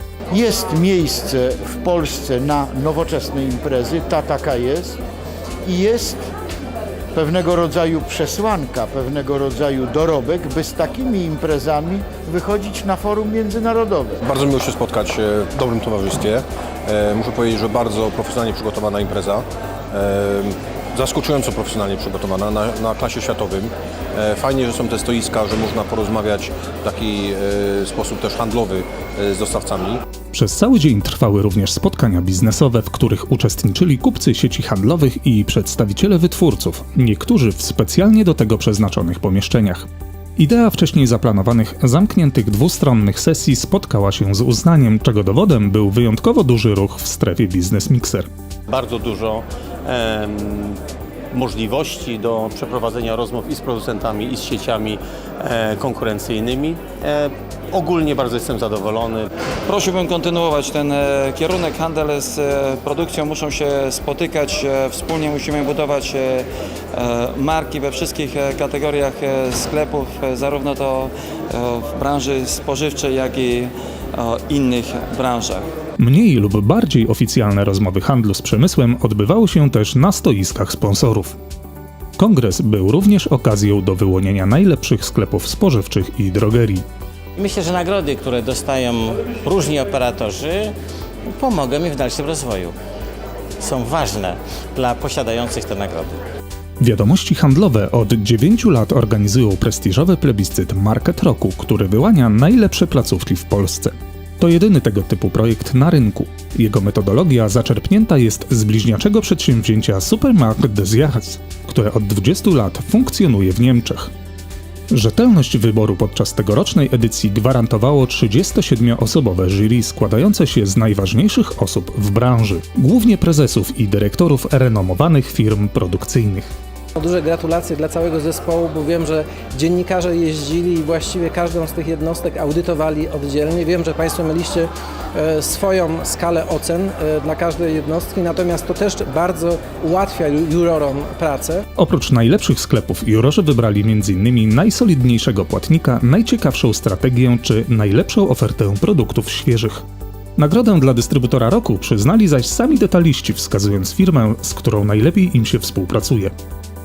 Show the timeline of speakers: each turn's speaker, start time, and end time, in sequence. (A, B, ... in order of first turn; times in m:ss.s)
0:00.3-0:05.0 A
0:05.6-0:06.2 A
0:07.2-0:14.2 A
0:14.2-0:30.0 B
0:30.3-0:48.3 C
0:48.7-0:59.3 D
0:59.7-1:15.7 E
1:16.0-1:21.4 C
1:22.2-1:26.8 C
1:27.4-1:30.7 F
1:31.3-1:32.7 F
1:33.6-1:36.2 F
1:36.8-1:54.1 C
1:54.9-2:06.5 C
2:07.0-2:21.6 G
2:21.8-2:29.8 C
2:30.4-2:36.3 C